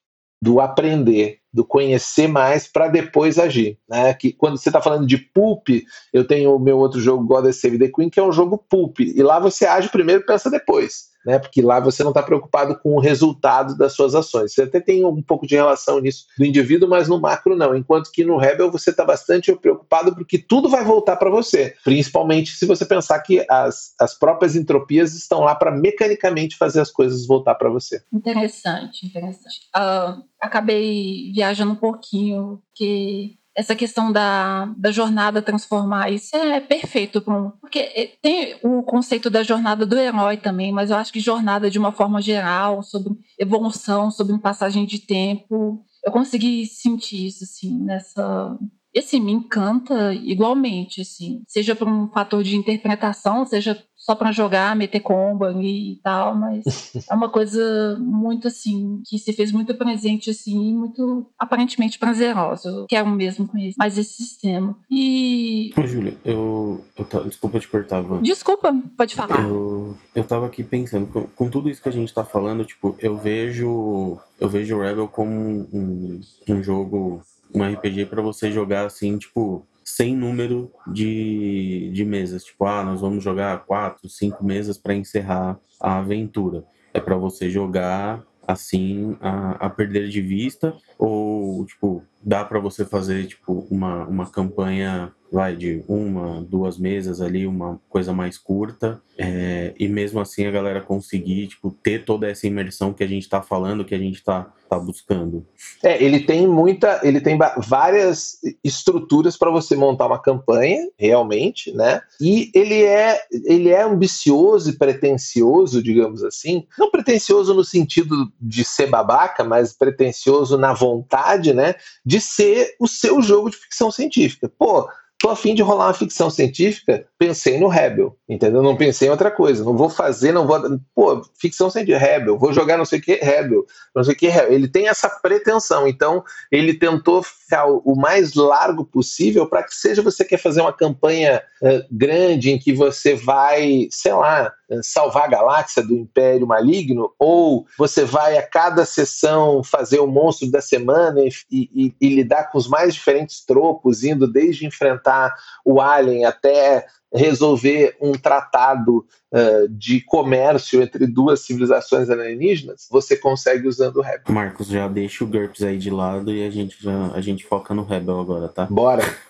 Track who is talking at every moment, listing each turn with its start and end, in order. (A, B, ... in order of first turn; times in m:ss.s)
0:00.4-0:28.0 A
0:28.1-1:05.7 B
1:05.8-1:08.2 C
1:08.2-1:09.5 B
1:09.3-1:45.5 C
1:45.8-2:44.2 A
2:44.3-2:48.7 C
2:48.7-2:49.1 A